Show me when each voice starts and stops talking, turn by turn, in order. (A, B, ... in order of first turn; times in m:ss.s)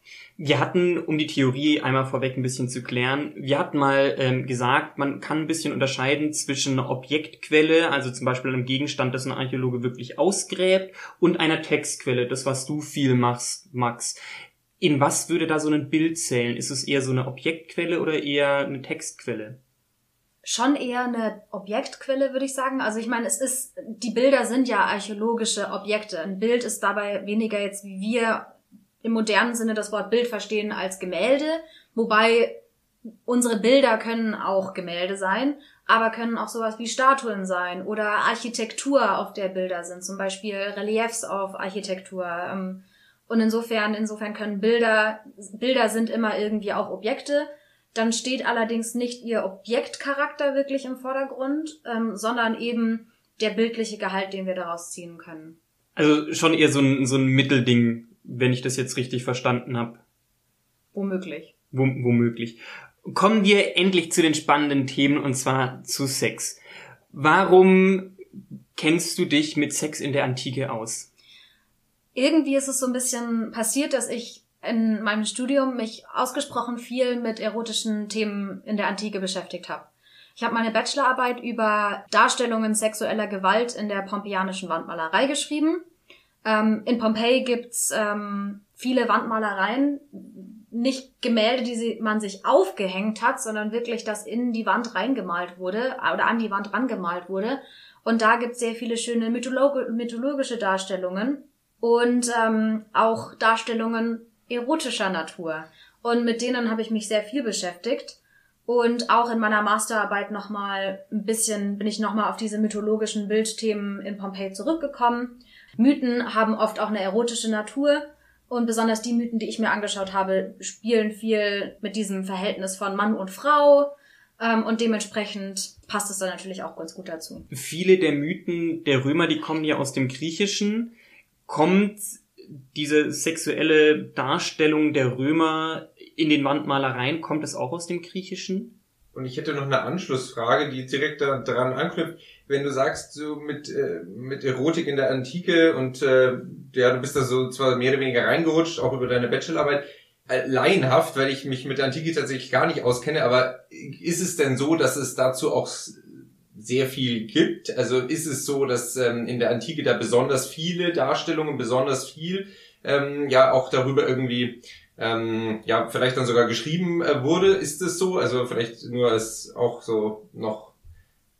0:00.4-0:14.2 A
0:14.8-0:19.6 A
0:20.4-0:28.5 B
0:29.0-0:32.6 B
0:33.2-0:55.6 B
0:56.0-1:00.0 A
1:00.9-1:01.5 B
1:01.7-1:06.6 A
1:07.1-1:08.2 A
1:08.7-1:11.1 A
1:12.1-1:25.8 B
1:26.4-2:07.5 B
2:07.5-2:10.9 A
2:11.5-2:18.7 A
2:19.1-2:50.7 C